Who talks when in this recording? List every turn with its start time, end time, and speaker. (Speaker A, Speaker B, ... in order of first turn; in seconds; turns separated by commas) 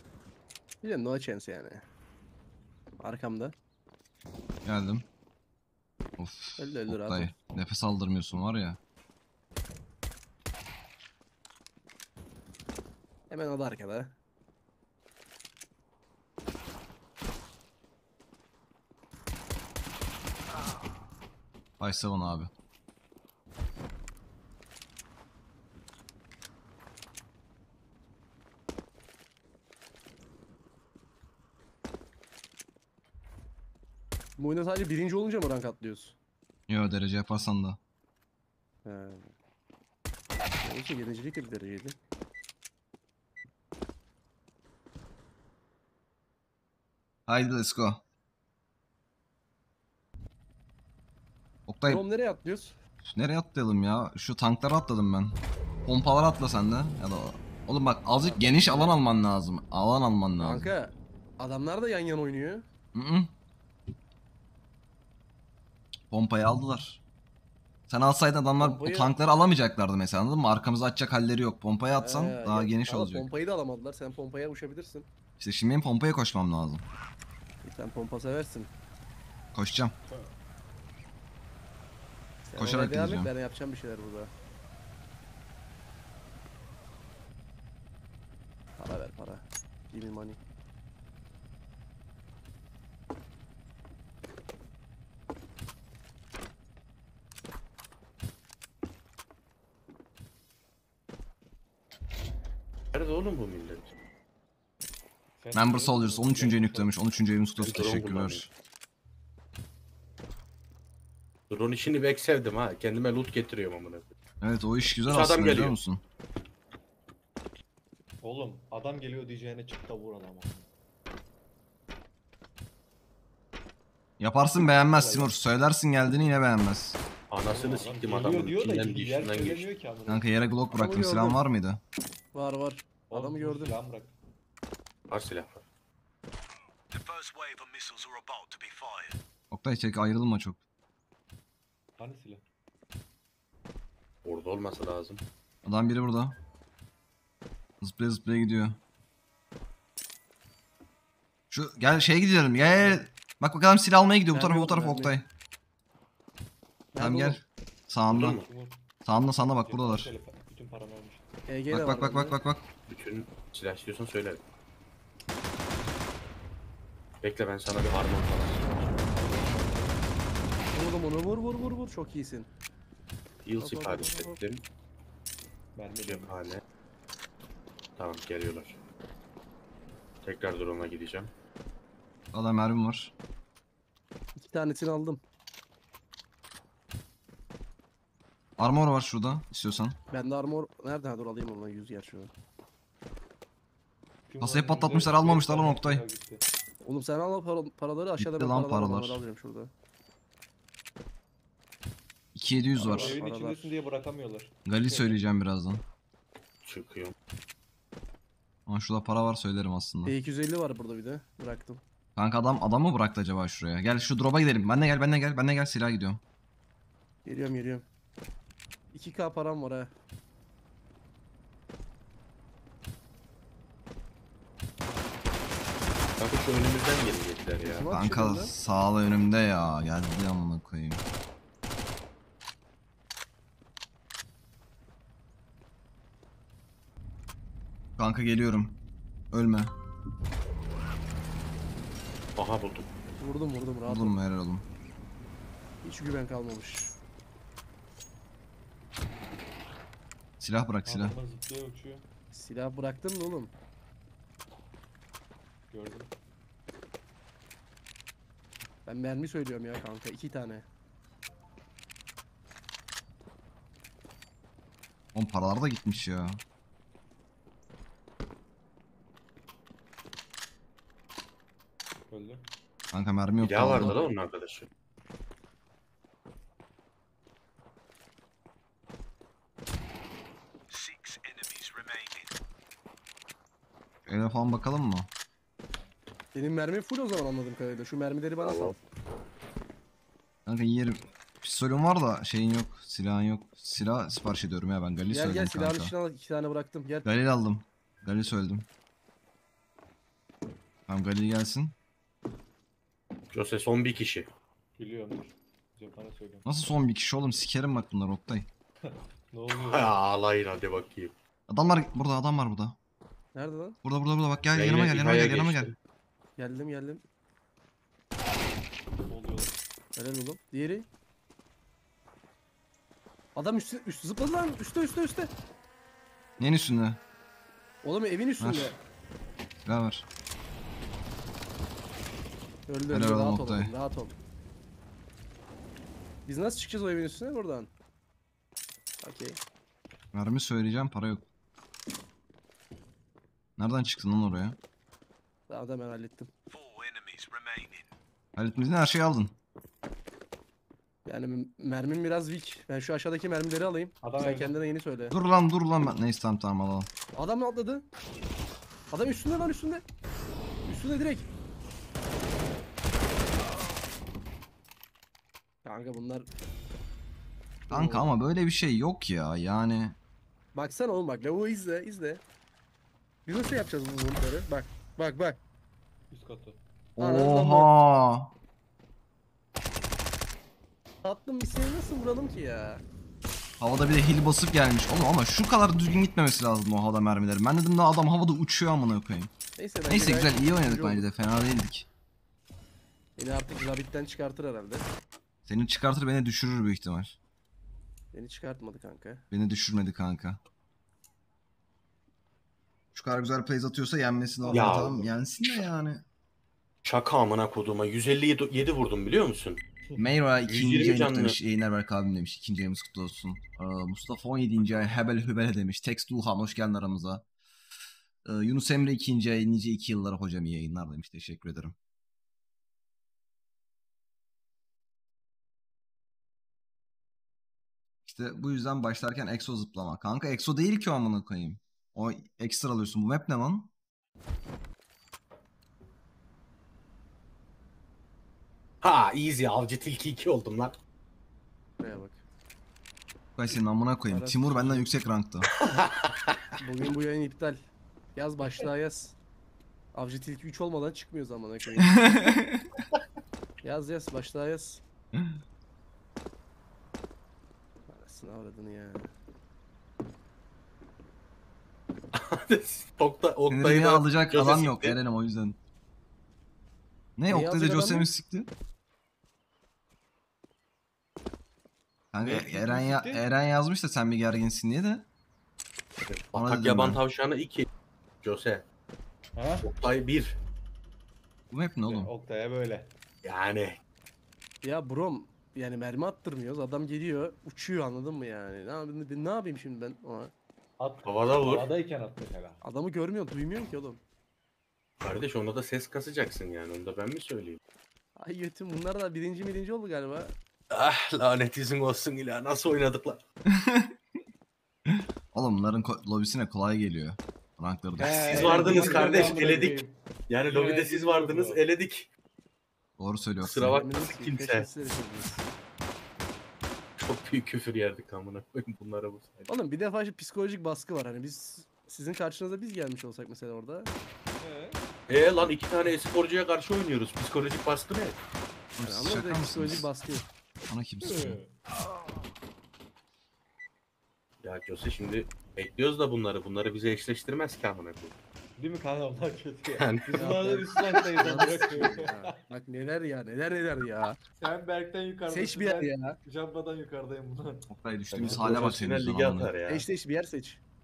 Speaker A: 0.8-1.8, Speaker A: 3.0-3.5, Speaker B: 4.7-5.0, Speaker B: 6.2-8.8, Speaker A: 6.6-7.3, Speaker A: 13.3-14.2, Speaker B: 21.8-22.5, Speaker A: 34.4-36.2, Speaker B: 36.7-37.8, Speaker A: 38.9-39.3, Speaker A: 40.6-42.0, Speaker B: 47.3-48.0, Speaker B: 51.7-52.0, Speaker A: 51.9-52.8, Speaker B: 53.1-60.7, Speaker C: 58.1-59.0, Speaker A: 60.4-62.6, Speaker B: 62.9-63.3, Speaker B: 66.1-67.0, Speaker B: 67.9-73.3, Speaker A: 68.6-69.2, Speaker A: 72.0-75.1, Speaker B: 75.4-76.8, Speaker A: 77.6-78.7, Speaker B: 79.5-79.9, Speaker A: 82.5-84.3, Speaker B: 82.6-83.3, Speaker A: 88.8-90.4, Speaker D: 102.9-103.9, Speaker C: 105.4-106.9, Speaker B: 105.5-108.5, Speaker D: 107.6-108.4, Speaker D: 111.5-114.1, Speaker B: 114.4-116.0, Speaker D: 115.1-115.8, Speaker C: 118.2-120.7, Speaker B: 124.2-127.0, Speaker C: 124.6-125.3, Speaker D: 127.3-129.7, Speaker C: 127.5-130.2, Speaker B: 130.1-131.8, Speaker A: 130.7-131.4, Speaker A: 132.3-133.8, Speaker C: 133.1-134.2, Speaker D: 135.1-135.7, Speaker E: 136.9-139.2, Speaker B: 139.5-140.6, Speaker C: 142.0-142.4, Speaker D: 144.2-145.2, Speaker B: 145.6-146.4, Speaker B: 147.8-148.8, Speaker B: 151.5-155.3, Speaker C: 152.6-153.0, Speaker A: 154.3-155.1, Speaker A: 156.9-157.4, Speaker B: 157.0-158.4, Speaker D: 158.1-158.5, Speaker C: 158.1-158.8, Speaker B: 159.0-160.1, Speaker C: 159.4-161.2, Speaker A: 161.5-162.4, Speaker B: 161.7-162.7, Speaker D: 162.9-164.4, Speaker D: 167.2-169.0, Speaker C: 169.0-170.1, Speaker A: 170.7-172.5, Speaker D: 173.4-174.6, Speaker A: 173.6-174.4, Speaker C: 175.8-176.3, Speaker D: 176.0-176.6, Speaker D: 178.0-178.8, Speaker D: 180.2-181.3, Speaker B: 182.3-183.1, Speaker A: 184.4-185.2, Speaker B: 188.6-190.0, Speaker A: 190.1-192.3, Speaker C: 194.3-196.4, Speaker B: 194.4-196.0, Speaker A: 196.8-199.7, Speaker B: 198.2-199.2, Speaker B: 202.3-203.2, Speaker A: 202.8-203.7, Speaker C: 202.8-205.2, Speaker B: 204.7-205.8, Speaker D: 206.7-207.1, Speaker B: 208.7-210.1, Speaker A: 210.1-211.8, Speaker B: 212.2-216.2, Speaker A: 217.3-217.9, Speaker A: 218.9-219.9, Speaker D: 226.2-227.9, Speaker A: 227.6-228.5, Speaker B: 227.9-231.0, Speaker B: 238.0-238.8, Speaker B: 239.3-239.8, Speaker D: 242.4-242.9, Speaker A: 243.2-244.2, Speaker B: 243.9-244.7, Speaker A: 245.8-246.9, Speaker B: 250.4-251.2, Speaker C: 250.8-252.1, Speaker A: 252.3-253.5, Speaker C: 255.7-256.1, Speaker A: 258.9-260.7, Speaker B: 265.1-266.4, Speaker C: 272.1-272.5, Speaker B: 272.9-274.0, Speaker D: 273.4-274.7, Speaker E: 280.7-282.3, Speaker B: 284.1-285.1, Speaker A: 286.3-288.8, Speaker D: 288.4-288.8, Speaker B: 290.5-295.9, Speaker A: 295.1-297.1, Speaker B: 297.1-298.7, Speaker B: 300.9-301.8, Speaker D: 303.3-304.3, Speaker C: 304.8-306.5, Speaker B: 306.4-308.5, Speaker C: 308.8-309.9, Speaker D: 309.6-311.1, Speaker B: 311.5-312.8, Speaker A: 313.4-313.8, Speaker B: 313.8-315.7, Speaker D: 314.6-315.8, Speaker A: 316.4-317.0, Speaker C: 319.1-319.5, Speaker A: 320.0-320.9, Speaker A: 323.4-325.3, Speaker B: 326.4-327.0, Speaker A: 327.8-328.8, Speaker B: 328.4-328.8, Speaker B: 329.6-330.1, Speaker A: 332.7-334.1, Speaker B: 332.9-333.7, Speaker A: 336.3-337.7, Speaker A: 339.0-339.4, Speaker B: 340.1-341.3, Speaker B: 343.6-344.6, Speaker A: 345.5-346.3, Speaker E: 346.5-347.9, Speaker B: 348.4-349.4, Speaker A: 351.1-355.1, Speaker C: 354.0-354.6, Speaker B: 355.1-356.9, Speaker A: 357.1-357.9, Speaker A: 358.9-359.8, Speaker A: 360.7-361.3, Speaker A: 365.6-366.3, Speaker A: 367.7-368.1, Speaker B: 367.7-370.0, Speaker A: 370.6-372.2, Speaker A: 373.3-375.4, Speaker C: 376.1-376.6, Speaker B: 377.0-378.4, Speaker A: 377.0-377.7, Speaker A: 381.0-382.8, Speaker B: 383.6-389.3, Speaker A: 389.6-391.0, Speaker B: 389.9-391.9, Speaker A: 393.2-394.9, Speaker B: 395.5-397.2, Speaker A: 398.1-399.2, Speaker B: 399.3-400.4, Speaker B: 402.9-406.0, Speaker C: 404.4-405.1, Speaker D: 404.5-405.0, Speaker D: 406.8-409.6, Speaker B: 410.0-417.2, Speaker D: 410.5-411.4, Speaker C: 414.6-415.0, Speaker B: 418.2-421.8, Speaker B: 428.1-433.7, Speaker D: 438.8-440.8, Speaker A: 441.8-442.2, Speaker B: 443.4-445.5, Speaker A: 444.1-444.9, Speaker D: 445.7-446.4, Speaker A: 446.6-449.2, Speaker A: 449.9-452.4, Speaker B: 452.0-452.7, Speaker A: 453.6-454.8, Speaker B: 455.1-455.4, Speaker A: 457.9-459.1, Speaker D: 462.1-465.0, Speaker B: 463.5-465.6, Speaker B: 467.2-468.5, Speaker A: 467.3-468.1, Speaker B: 472.1-475.1, Speaker C: 472.2-473.2, Speaker D: 476.0-477.7, Speaker B: 476.4-477.0, Speaker D: 478.2-478.6, Speaker C: 479.4-479.7, Speaker D: 479.6-480.4, Speaker B: 481.5-482.1, Speaker C: 481.9-482.9, Speaker D: 483.2-483.8, Speaker A: 484.6-490.3, Speaker C: 490.8-492.6, Speaker D: 491.1-491.7, Speaker A: 492.6-494.0, Speaker D: 495.0-497.6, Speaker A: 498.2-500.3, Speaker D: 500.7-503.2, Speaker B: 503.5-503.9, Speaker B: 504.9-508.4, Speaker C: 508.0-511.6, Speaker A: 508.0-509.8, Speaker D: 508.2-509.8, Speaker D: 510.3-512.1, Speaker B: 513.0-513.8, Speaker D: 513.4-514.7, Speaker A: 513.6-515.4, Speaker D: 517.0-519.5, Speaker A: 519.5-523.9, Speaker C: 524.4-524.8, Speaker D: 525.1-528.2, Speaker B: 528.8-529.9, Speaker A: 528.9-530.3, Speaker B: 530.7-531.4, Speaker C: 531.0-531.5, Speaker D: 534.4-538.1, Speaker C: 538.6-542.4, Speaker D: 539.7-541.4, Speaker A: 540.1-544.2, Speaker C: 544.4-548.8, Speaker A: 545.3-546.2, Speaker B: 547.7-549.5, Speaker D: 548.2-549.9, Speaker A: 549.7-550.6